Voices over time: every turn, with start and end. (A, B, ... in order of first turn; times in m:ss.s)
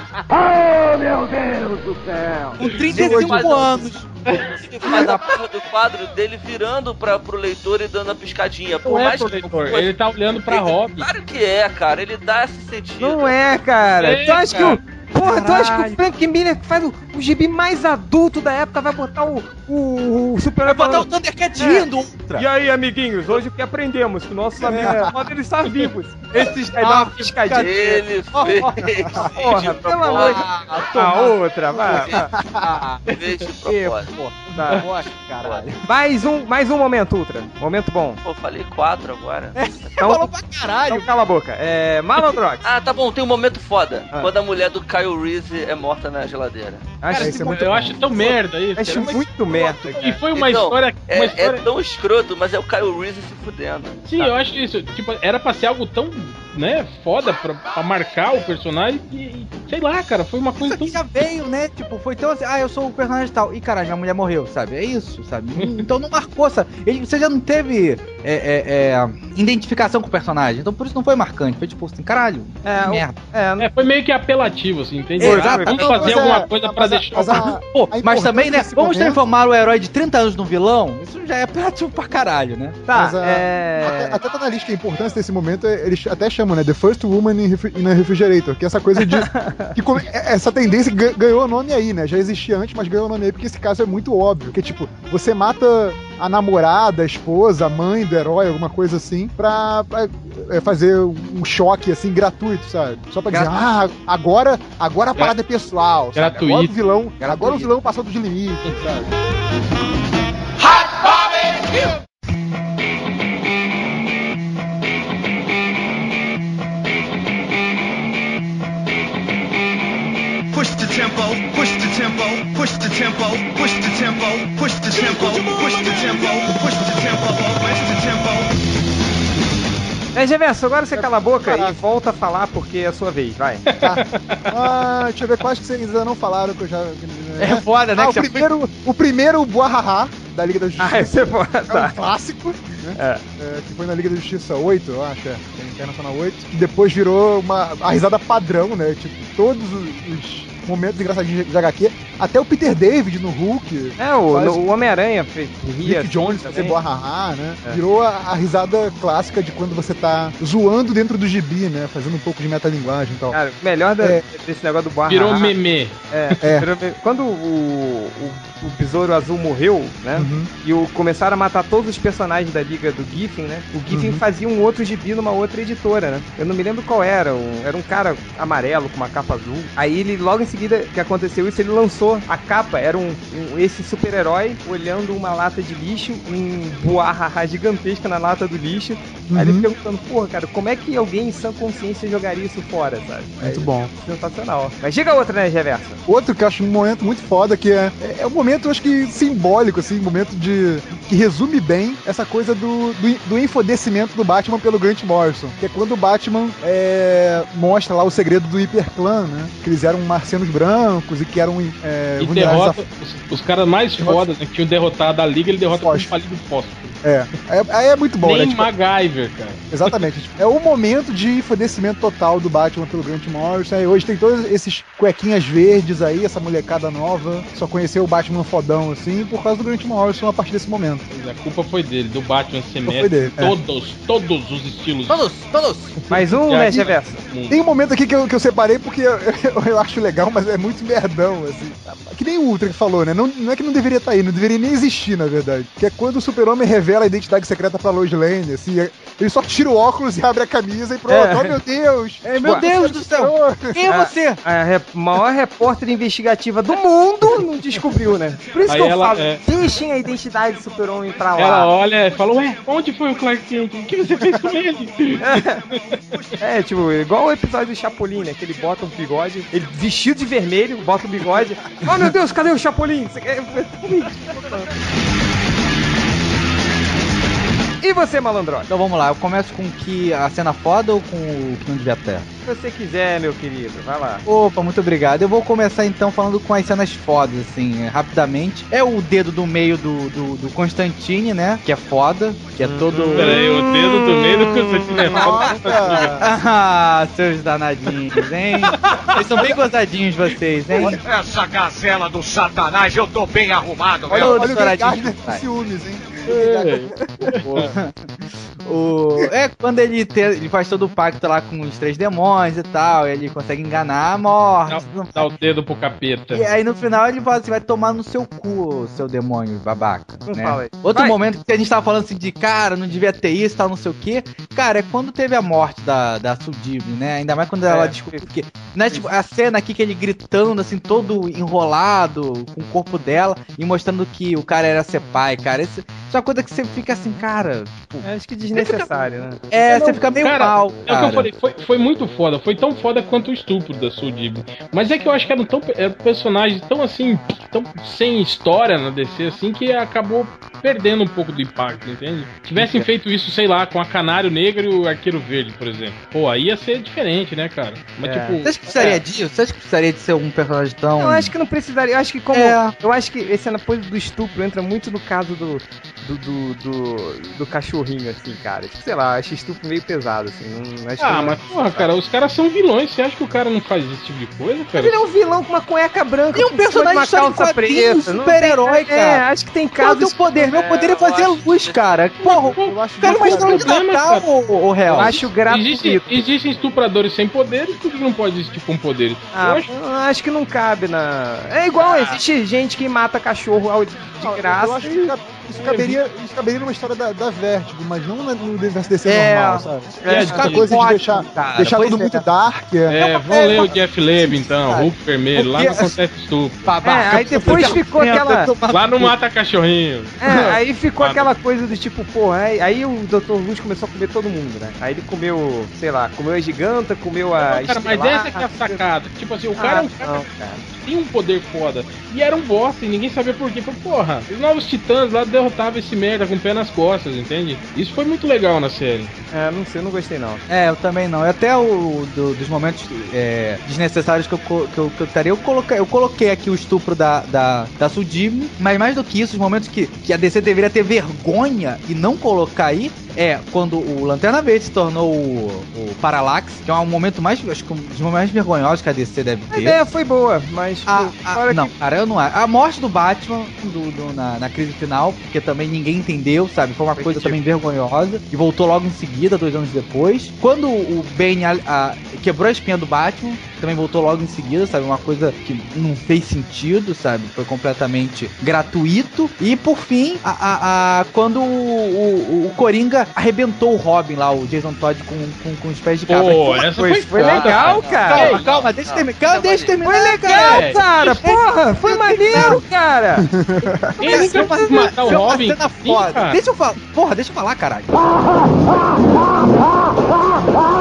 0:00.3-0:02.7 A
0:02.6-0:04.1 B
0:02.9-0:03.9 C
0:02.9-0:03.5 D
0:04.5-0:09.9 C
0:04.9-0:05.3 B
0:08.8-0:11.1 E
0:10.5-0:13.4 C
0:13.0-0:27.8 F
0:14.0-0:14.8 E
0:15.2-0:16.0 B
0:20.6-0:22.4 B
0:24.7-0:25.0 B
0:24.7-0:25.1 D
0:26.3-0:33.1 B
0:27.5-0:30.5 C
0:29.3-0:32.3 F
0:31.9-0:32.2 C
0:32.3-0:32.7 D
0:33.1-0:34.1 C
0:33.6-0:35.8 B
0:34.5-0:34.8 F
0:35.8-0:38.2 F
0:38.2-0:39.6 C
0:39.6-0:41.1 B
0:40.0-0:40.3 F
0:40.9-0:42.7 F
0:42.6-0:46.9 C
0:47.0-0:50.2 F
0:47.1-0:51.6 E
0:47.1-0:48.2 D
0:50.3-0:54.0 C
0:54.0-1:01.0 E
1:00.6-1:13.2 B
1:05.6-1:05.9 E
1:12.6-1:13.7 F
1:13.6-1:17.5 E
1:15.2-1:16.2 B
1:15.2-1:15.9 F
1:15.6-1:19.2 D
1:17.3-1:22.8 B
1:22.9-1:24.2 F
1:22.9-1:49.1 D
1:29.0-1:29.8 F
1:43.3-1:43.6 B
1:46.1-1:46.7 E
1:47.2-1:47.7 B
1:50.7-1:51.9 G
2:00.7-2:07.1 D
2:04.9-2:06.0 B
2:10.1-2:13.6 F
2:10.9-2:11.8 D
2:13.7-2:14.5 E
2:13.8-2:34.6 D
2:17.4-2:18.5 B
2:20.8-2:22.0 F
2:22.9-2:23.2 F
2:34.0-2:36.8 F
2:35.8-2:43.4 D
2:43.3-2:45.5 F
2:45.1-2:46.3 E
2:46.1-3:16.0 F
2:46.4-2:46.7 D
2:50.1-2:50.5 D
2:53.9-2:54.2 D
3:09.3-3:09.7 D
3:13.4-3:13.9 D
3:16.0-3:32.8 D
3:32.2-3:37.0 E
3:34.0-3:34.2 D
3:35.7-3:36.1 D
3:37.0-3:38.7 D
3:38.2-3:40.0 E
3:39.7-3:51.0 D
3:51.1-3:55.2 E
3:52.9-3:53.5 D
3:55.1-3:56.0 B
3:56.1-3:57.2 F
3:56.1-3:57.6 E
3:57.5-4:13.8 D
4:11.1-4:11.6 F
4:12.2-4:14.4 B
4:12.4-4:12.7 F
4:13.9-4:21.7 F
4:18.7-4:19.4 E
4:21.4-4:26.2 E
4:24.2-4:24.5 D
4:25.2-4:25.6 F
4:26.4-4:34.7 F
4:31.6-4:32.1 D
4:37.8-4:38.7 F
4:38.7-4:42.2 B
4:42.4-4:44.2 F
4:44.2-4:53.4 B
4:52.6-4:53.4 F
4:53.1-4:56.2 E
4:55.1-4:56.3 D
4:56.2-5:01.0 B
5:01.0-5:04.5 G
5:04.1-5:05.4 B
5:04.1-5:07.6 D
5:06.3-5:07.7 E
5:07.5-5:08.0 B
5:08.6-5:15.3 B
5:14.7-5:16.5 E
5:16.3-5:38.9 B
5:20.3-5:21.2 F
5:27.6-5:28.2 F
5:38.0-5:39.4 F
5:39.5-5:41.3 B
5:39.6-5:58.6 E
5:52.6-5:52.9 B
5:58.0-5:59.0 F
5:58.4-6:01.3 B
6:01.0-6:11.9 F
6:02.3-6:02.7 B
6:11.0-6:15.0 E
6:14.7-6:20.5 F
6:16.3-6:25.3 B
6:20.5-6:21.9 C
6:22.2-6:24.2 E
6:22.6-6:23.7 D
6:24.9-6:29.7 E
6:24.9-6:26.2 F
6:29.3-6:35.1 F
6:34.2-6:43.7 D
6:39.0-6:42.2 B
6:40.0-6:40.7 E
6:42.9-6:46.7 E
6:44.2-6:46.0 B
6:46.6-6:49.1 B
6:46.8-6:48.5 F
6:47.4-6:47.8 E
6:48.7-6:50.2 E
6:50.2-6:58.8 F
6:51.0-6:51.3 E
6:57.4-7:09.1 E
6:59.6-7:00.6 F
7:09.3-7:10.4 F
7:10.5-7:29.8 B
7:29.5-7:31.7 F
7:30.9-8:02.6 B
7:37.0-7:37.4 F
7:56.1-7:58.4 E
7:56.7-7:58.4 F
7:57.2-7:59.7 C
7:59.8-8:03.3 F
8:00.3-8:00.8 E
8:03.2-8:04.0 D
8:04.0-8:05.1 F
8:04.0-8:06.4 E
8:04.0-8:07.9 B